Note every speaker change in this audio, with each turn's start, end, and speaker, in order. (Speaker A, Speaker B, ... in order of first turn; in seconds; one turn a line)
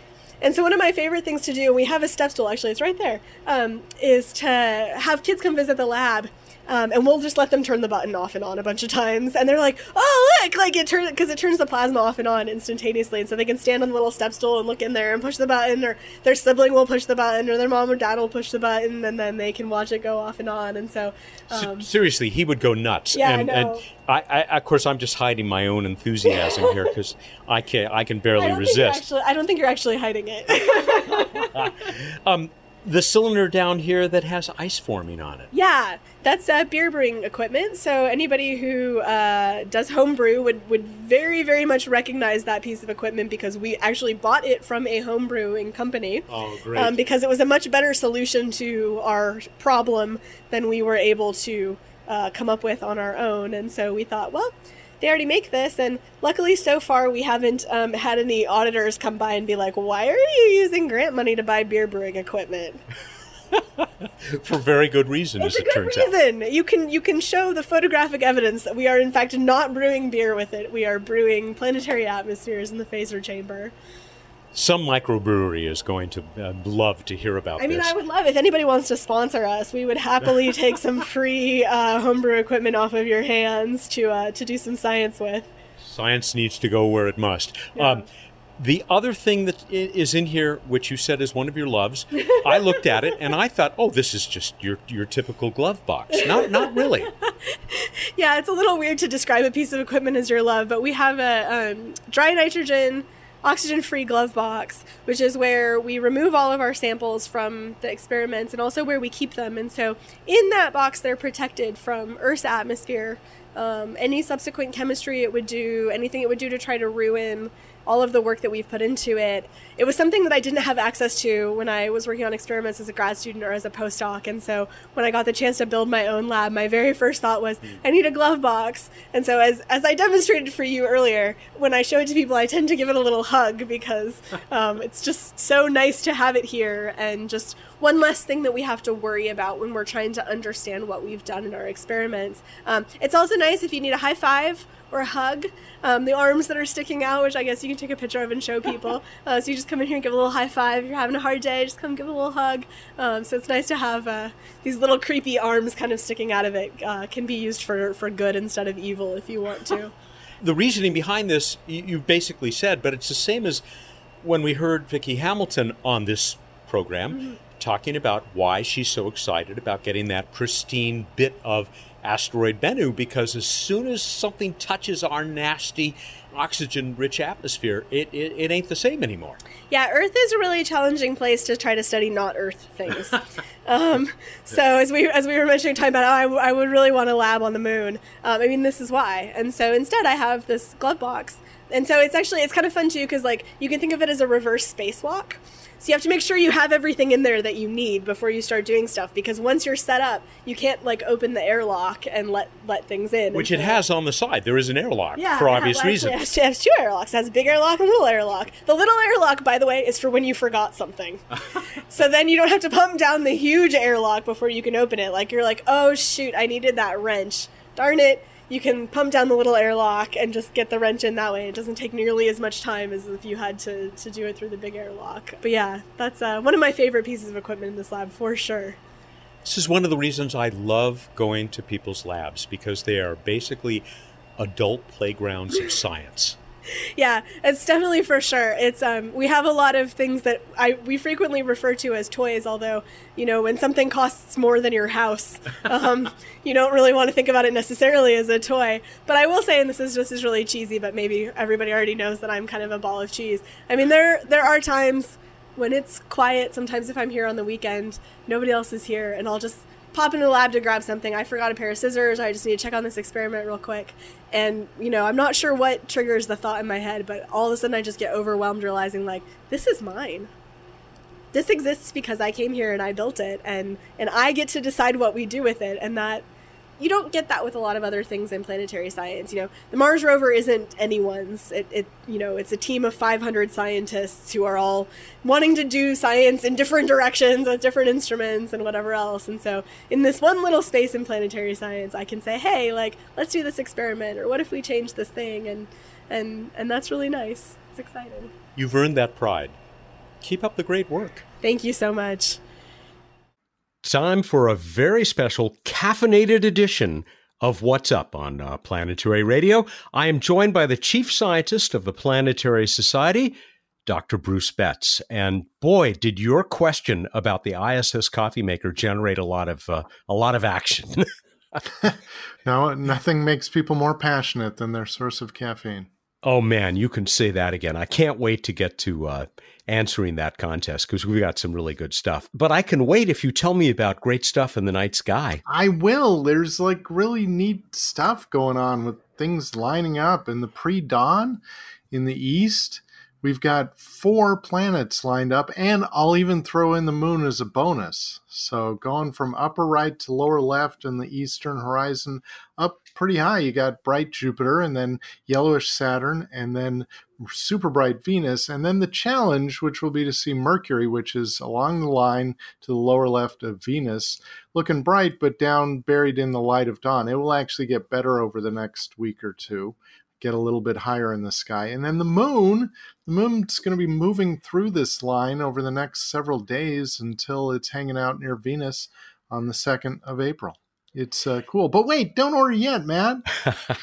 Speaker A: 0.4-21.9
Speaker B: 21.5-29.0
Speaker A: 23.1-23.8
Speaker A: 26.4-26.8
Speaker A: 28.4-31.5
Speaker B: 31.1-35.5
Speaker A: 35.5-62.8
Speaker B: 46.3-47.0
Speaker B: 63.5-66.1
Speaker A: 65.4-73.8
Speaker B: 74.5-77.9
Speaker A: 77.6-85.5
Speaker B: 85.8-88.1
Speaker B: 88.6-97.1
Speaker A: 96.4-159.9
Speaker B: 160.4-163.6
Speaker B: 164.2-179.4
Speaker A: 179.7-203.8
Speaker B: 203.3-206.2
Speaker A: 205.2-228.8
Speaker B: 229.4-233.8
Speaker B: 234.4-236.4
Speaker A: 237.0-270.3
Speaker A: 271.3-276.2
Speaker A: 276.8-298.3
Speaker B: 298.6-299.6
Speaker B: 300.2-301.2
Speaker A: 301.4-302.4
Speaker B: 303.8-321.1
Speaker C: 322.4-325.9
Speaker B: 326.2-335.4
Speaker C: 335.5-383.4